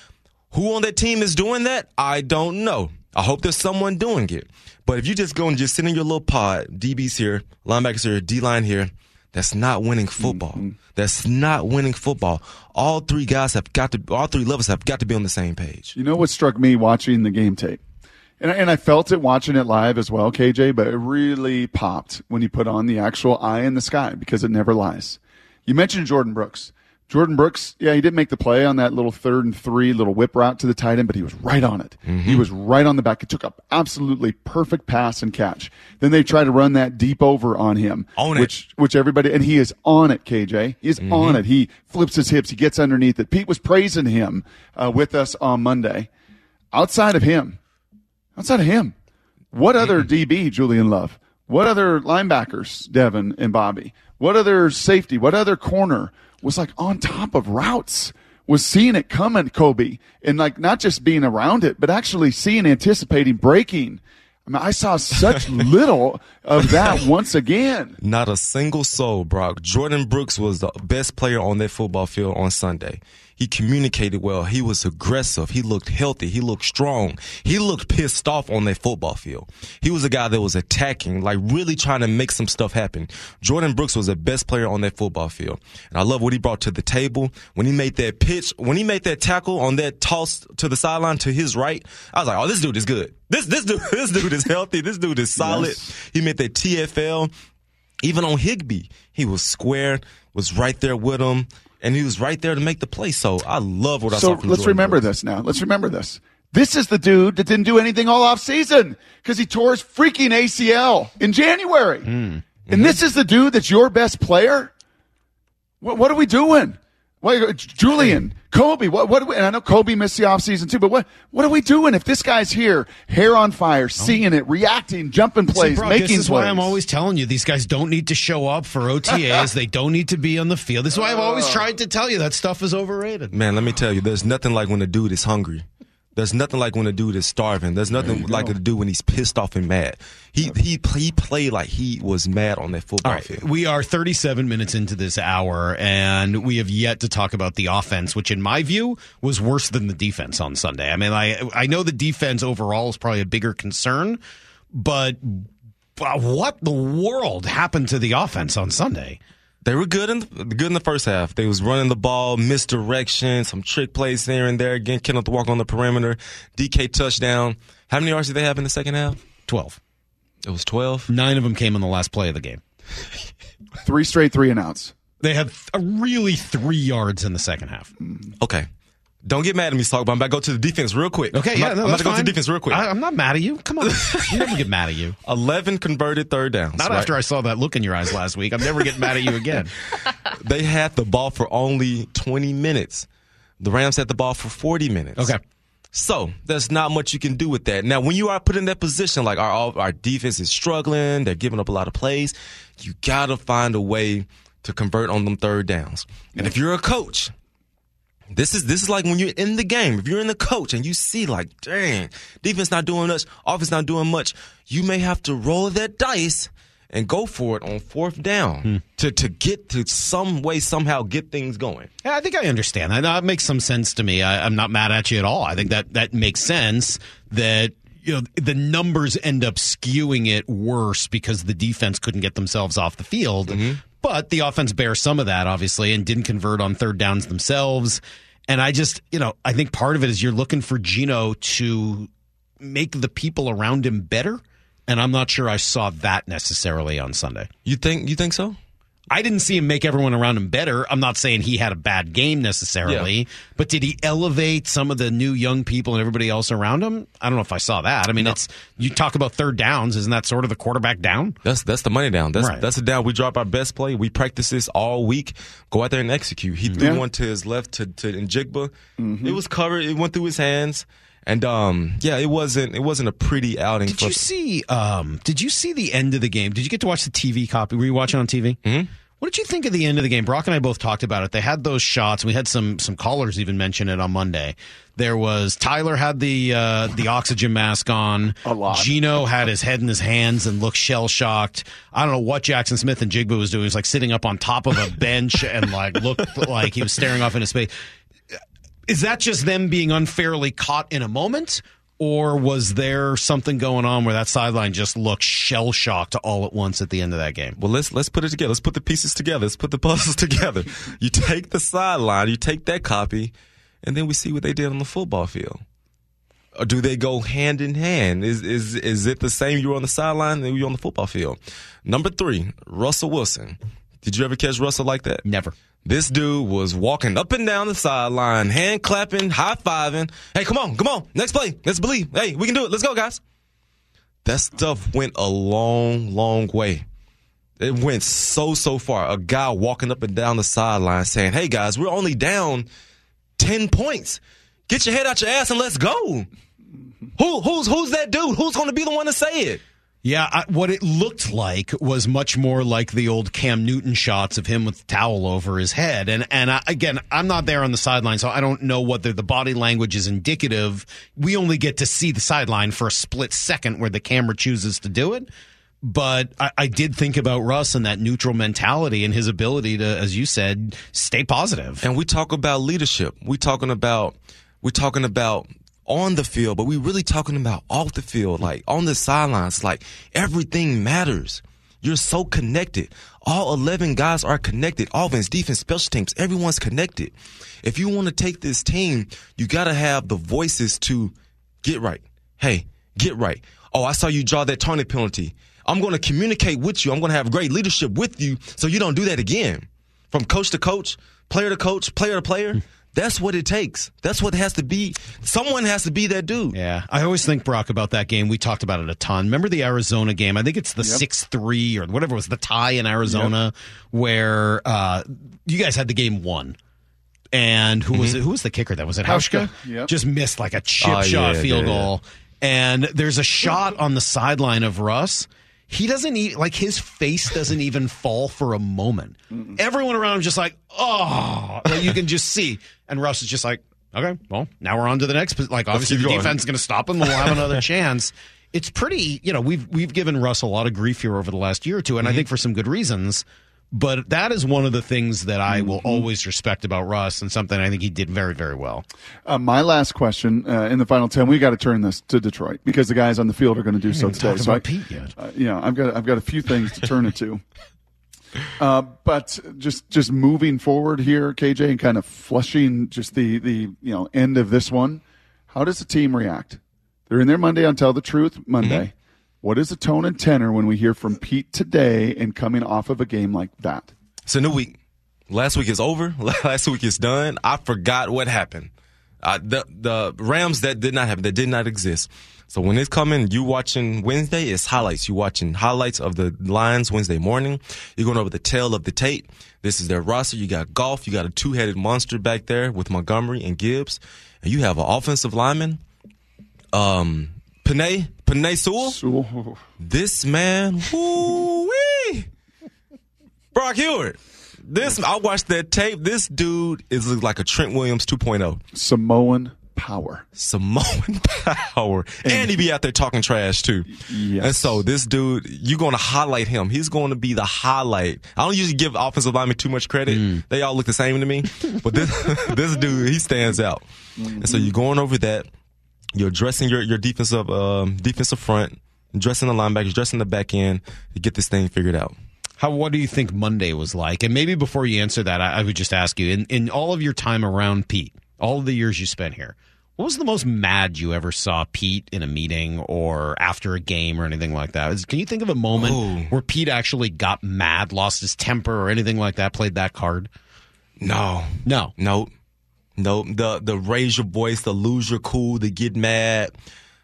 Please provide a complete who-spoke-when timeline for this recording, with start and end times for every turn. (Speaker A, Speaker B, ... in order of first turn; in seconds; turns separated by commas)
Speaker A: 0.5-15.9, Speaker B: 10.2-10.7, Speaker B: 15.9-17.8, Speaker B: 18.4-46.1, Speaker A: 32.1-32.5, Speaker A: 38.2-38.5, Speaker A: 41.0-41.4, Speaker B: 46.7-47.6, Speaker B: 48.4-48.9, Speaker B: 49.5-68.0, Speaker A: 68.0-97.3, Speaker B: 95.4-95.9, Speaker A: 98.0-105.0, Speaker B: 104.1-112.1, Speaker C: 112.1-112.4, Speaker A: 112.7-113.0, Speaker B: 112.7-114.7, Speaker B: 115.8-126.8, Speaker C: 125.5-133.3, Speaker B: 130.9-131.7, Speaker A: 133.3-135.6, Speaker A: 136.2-143.4, Speaker B: 138.0-138.5, Speaker C: 143.0-154.2, Speaker C: 154.7-159.2, Speaker A: 159.6-169.2, Speaker C: 169.5-169.8, Speaker A: 170.4-171.1, Speaker C: 171.1-172.6, Speaker B: 173.8-174.9, Speaker C: 175.2-177.9, Speaker A: 178.4-178.7, Speaker A: 179.2-182.8, Speaker C: 181.3-185.1, Speaker A: 183.9-184.2, Speaker A: 185.2-187.1, Speaker C: 186.8-189.7, Speaker A: 190.1-193.1, Speaker A: 193.6-195.3, Speaker A: 195.9-207.3, Speaker A: 208.3-221.9, Speaker C: 222.0-247.5, Speaker A: 233.5-233.8, Speaker A: 247.6-248.6, Speaker C: 249.1-261.4, Speaker A: 261.4-274.2, Speaker C: 262.4-262.6, Speaker B: 266.8-267.0, Speaker B: 269.0-269.4, Speaker C: 273.9-278.6, Speaker A: 278.6-278.9, Speaker C: 279.2-297.7, Speaker B: 288.4-288.9, Speaker C: 298.9-307.6, Speaker A: 307.6-315.6, Speaker A: 316.6-325.2, Speaker C: 325.2-325.5, Speaker A: 325.8-333.2, Speaker A: 334.2-336.8, Speaker A: 337.6-342.7, Speaker A: 343.4-346.3, Speaker A: 347.2-349.6, Speaker C: 350.0-365.3, Speaker C: 365.8-371.8, Speaker A: 371.8-406.6, Speaker C: 406.5-416.6, Speaker B: 410.8-411.0, Speaker B: 413.1-413.3, Speaker C: 417.3-448.8, Speaker B: 419.0-419.9, Speaker A: 420.8-421.9, Speaker A: 435.7-436.4, Speaker B: 449.2-454.6, Speaker C: 453.9-455.1, Speaker B: 455.2-457.4, Speaker B: 458.6-473.9, Speaker A: 468.6-468.9, Speaker A: 474.3-474.8, Speaker A: 475.3-478.7, Speaker A: 479.2-495.8, Speaker A: 496.7-499.0, Speaker B: 498.8-499.6, Speaker A: 499.8-502.3, Speaker A: 503.5-508.6, Speaker B: 508.7-510.2, Speaker A: 510.4-525.5, Speaker B: 512.2-512.5, Speaker B: 514.0-514.8, Speaker C: 520.1-520.4, Speaker B: 524.2-524.7, Speaker A: 526.1-532.1, Speaker C: 532.6-550.3, Speaker A: 545.7-546.3, Speaker A: 551.0-552.3, Speaker C: 551.6-551.9, Speaker A: 553.0-556.5